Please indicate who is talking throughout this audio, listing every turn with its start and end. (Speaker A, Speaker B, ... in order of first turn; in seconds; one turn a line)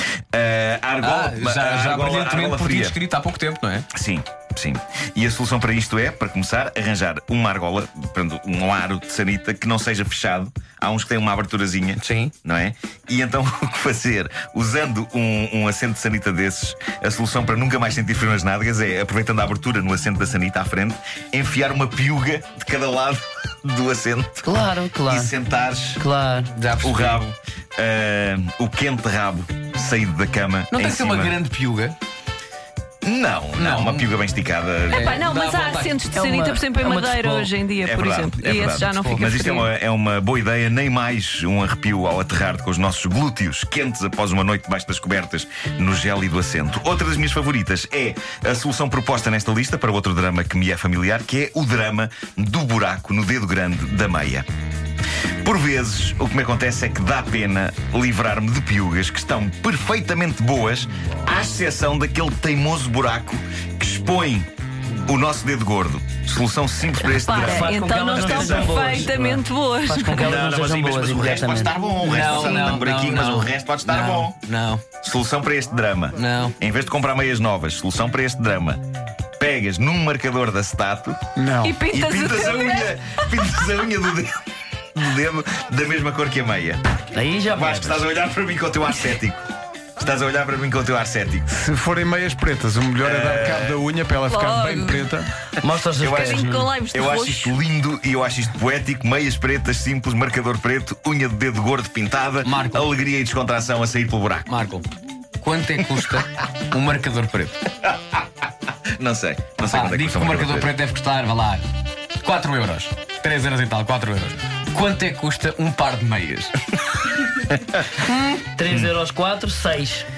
Speaker A: 0.3-3.0
Speaker B: 1.0-3.9
Speaker A: 3.9-24.5
Speaker B: 12.0-12.3
Speaker C: 24.4-25.3
Speaker A: 25.1-26.0
Speaker C: 26.0-26.5
Speaker B: 26.5-27.3
Speaker A: 26.8-31.4
Speaker B: 30.7-32.0
Speaker A: 33.0-35.2
Speaker B: 33.6-34.1
Speaker D: 34.9-39.7
Speaker B: 34.9-36.0
Speaker C: 36.1-37.5
Speaker A: 37.8-54.5
Speaker A: 55.4-64.5
Speaker A: 65.0-69.0
Speaker D: 67.1-70.3
Speaker C: 67.3-71.7
Speaker A: 70.1-74.4
Speaker B: 72.0-74.9
Speaker A: 75.0-78.8
Speaker B: 76.2-76.5
Speaker A: 79.4-81.2
Speaker E: 81.3-81.8
Speaker D: 81.6-83.3
Speaker A: 81.9-84.4
Speaker A: 84.9-86.8
Speaker C: 87.1-88.1
Speaker A: 87.5-89.4
Speaker A: 90.0-91.5
Speaker E: 91.5-95.3
Speaker A: 93.0-93.8
Speaker D: 94.2-95.2
Speaker C: 95.6-96.7
Speaker A: 96.0-104.5
Speaker D: 96.0-97.6
Speaker B: 102.5-102.9
Speaker B: 104.5-104.8
Speaker B: 105.4-107.6
Speaker A: 109.0-110.8
Speaker B: 109.7-111.6
Speaker B: 112.2-116.7
Speaker A: 117.5-118.0
Speaker B: 118.1-118.4
Speaker C: 118.4-120.1
Speaker A: 118.7-118.9